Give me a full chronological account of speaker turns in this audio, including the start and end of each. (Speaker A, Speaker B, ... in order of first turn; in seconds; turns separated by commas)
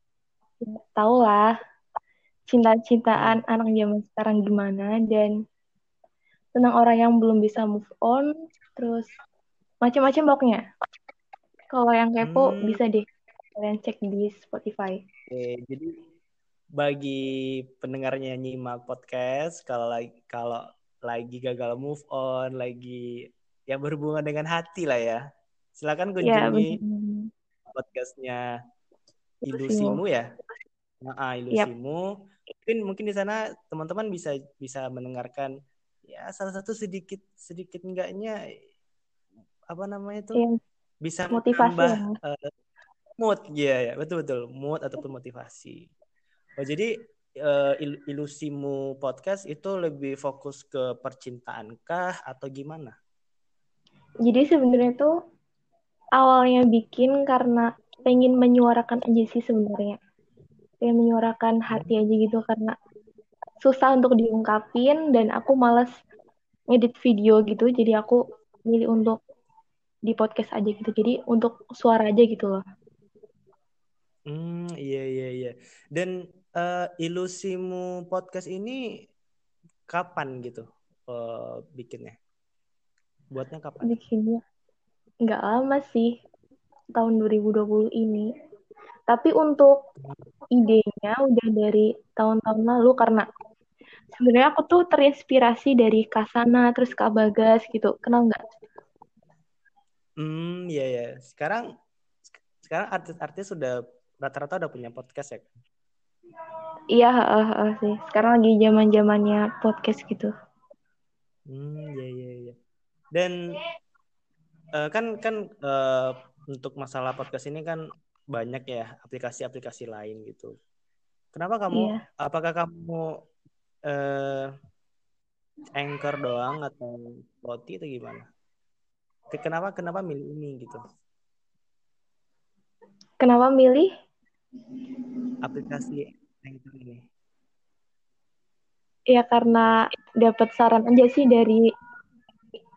Speaker A: 0.6-1.5, Speaker A: 2.5-5.3, Speaker B: 3.2-3.4, Speaker A: 6.5-9.1, Speaker A: 9.8-10.6, Speaker A: 11.7-13.1, Speaker B: 12.2-12.8, Speaker A: 13.6-15.0, Speaker B: 15.3-15.9, Speaker B: 16.8-23.1, Speaker B: 23.7-25.2, Speaker B: 25.8-26.8, Speaker A: 26.2-27.3, Speaker B: 27.7-28.4, Speaker A: 29.5-30.0, Speaker B: 29.5-30.3, Speaker B: 31.0-32.0, Speaker B: 32.6-35.5, Speaker B: 36.1-38.4, Speaker B: 39.7-40.4, Speaker B: 41.0-42.5, Speaker A: 41.3-42.2, Speaker B: 43.2-45.9, Speaker B: 46.6-46.9, Speaker B: 47.4-53.0, Speaker A: 54.3-55.1, Speaker A: 56.2-60.0, Speaker A: 60.8-62.7, Speaker B: 61.7-61.9, Speaker A: 63.6-65.9, Speaker A: 66.7-69.2, Speaker A: 70.1-72.6, Speaker B: 74.3-78.8, Speaker B: 79.9-82.2, Speaker B: 83.3-84.0, Speaker A: 83.8-84.4, Speaker A: 85.2-86.1, Speaker A: 87.0-88.3, Speaker A: 89.1-89.7, Speaker A: 90.5-93.2, Speaker A: 94.2-98.4, Speaker B: 100.2-101.7, Speaker B: 102.6-105.5, Speaker A: 106.9-110.3, Speaker B: 111.5-112.5, Speaker B: 114.8-117.8, Speaker B: 118.3-120.5, Speaker B: 121.3-123.1, Speaker A: 121.7-122.0, Speaker B: 123.9-124.5, Speaker B: 125.8-128.2, Speaker B: 129.3-130.8, Speaker A: 133.2-133.9, Speaker B: 135.4-137.0, Speaker A: 139.1-141.7